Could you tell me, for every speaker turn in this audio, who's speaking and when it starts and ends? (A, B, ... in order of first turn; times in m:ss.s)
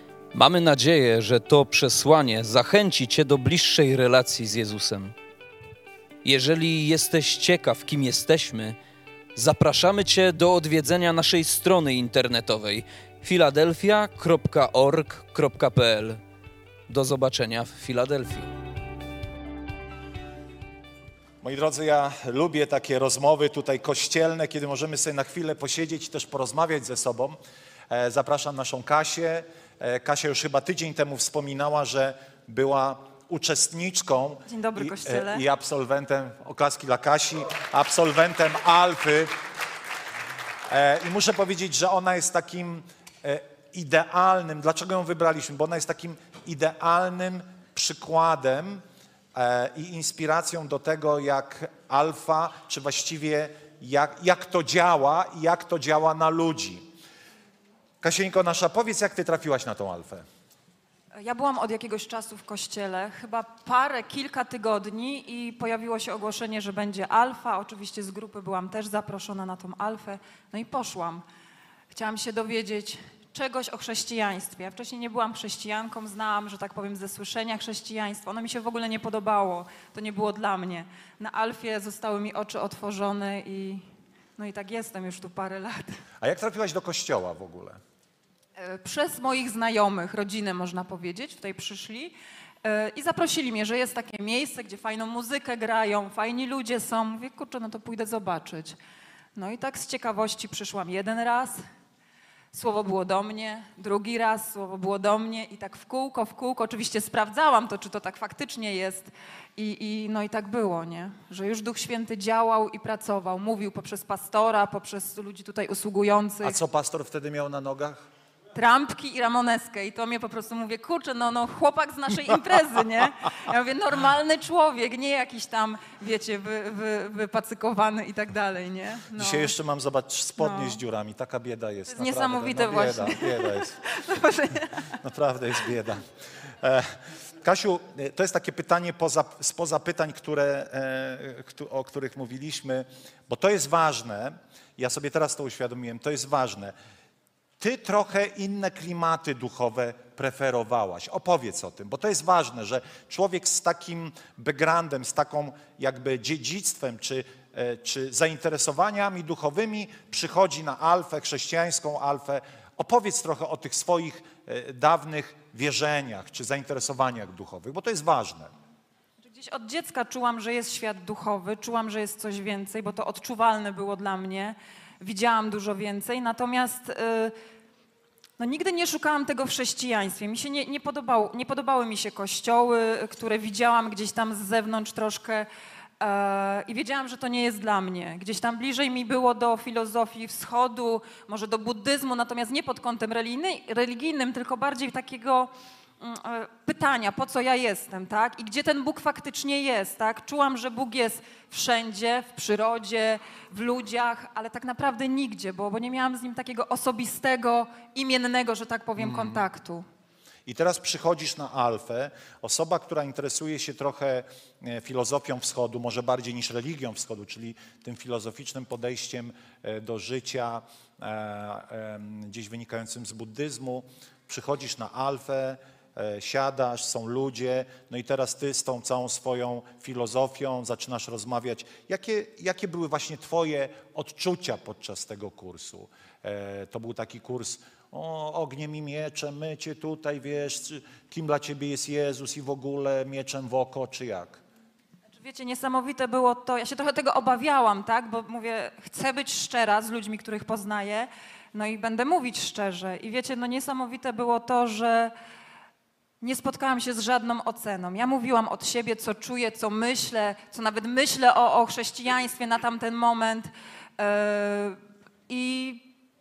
0:00.3-0:05.1 A
0:06.2-0:08.8 A
0:09.4-0:16.2 A
0:16.9-0:18.5 A
0:21.4-0:27.4 B
0:27.9-0:39.3 B
0:34.5-0:35.4 C
0:40.7-0:48.8 B
0:49.3-0:56.8 B
0:58.0-1:00.2 B
1:01.2-1:11.2 C
1:11.9-1:23.8 C
1:24.4-1:26.0 C
1:26.2-1:27.8 B
1:28.6-1:38.8 C
1:39.4-1:41.6 C
1:42.5-1:56.6 C
1:56.4-1:58.0 B
1:58.5-2:09.5 C
2:09.1-2:13.8 B
2:10.4-2:10.8 C
2:11.9-2:15.0 C
2:15.0-2:16.0 B
2:16.6-2:26.7 B
2:27.6-2:48.5 B
2:49.2-2:57.3 C
2:58.4-3:05.5 C
3:06.0-3:29.8 C
3:29.0-3:29.4 B
3:30.4-4:04.4 B
4:05.1-4:15.1 C
4:16.2-4:25.9 C